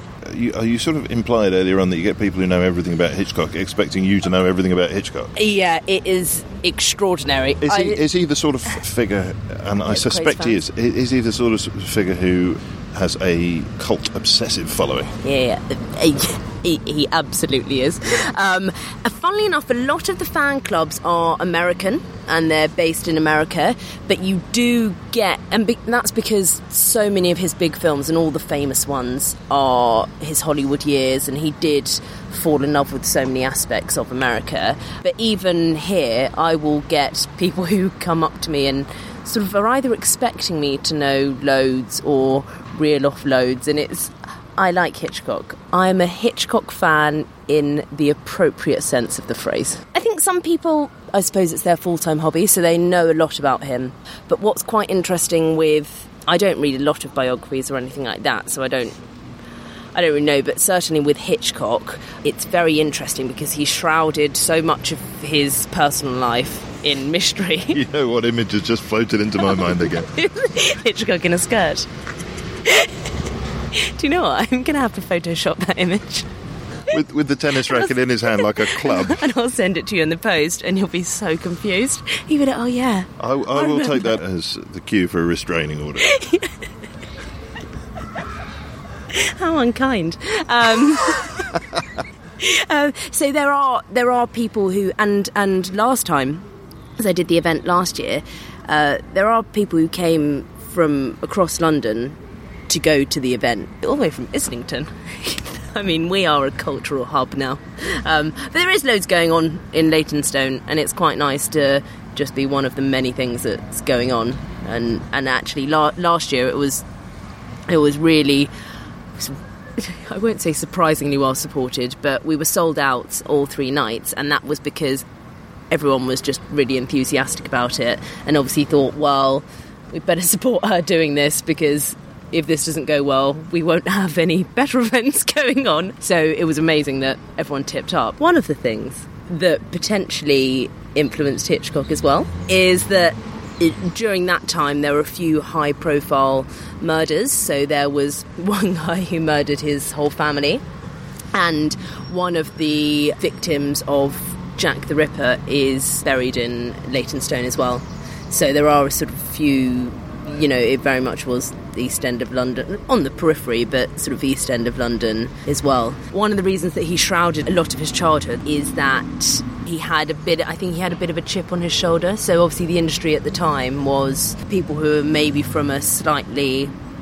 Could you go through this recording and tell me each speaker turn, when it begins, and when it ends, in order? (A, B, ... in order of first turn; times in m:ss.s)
0:00.2-0:05.3 A
0:05.4-0:08.0 B
0:07.6-0:15.1 A
0:09.9-0:10.6 B
0:15.2-0:59.0 B
0:59.9-1:07.8 B
1:07.7-1:10.1 A
1:09.5-1:11.9 B
1:12.6-1:12.9 B
1:13.7-1:16.3 B
1:16.9-1:19.2 A
1:17.7-1:24.2 B
1:23.2-1:26.1 A
1:26.0-1:26.5 B
1:29.1-1:31.5 B
1:32.4-1:36.4 B
1:37.0-1:42.2 B
1:42.7-1:56.8 B
1:57.7-1:58.5 B
1:59.2-2:05.0 B
2:05.7-2:30.6 B
2:31.3-2:56.7 B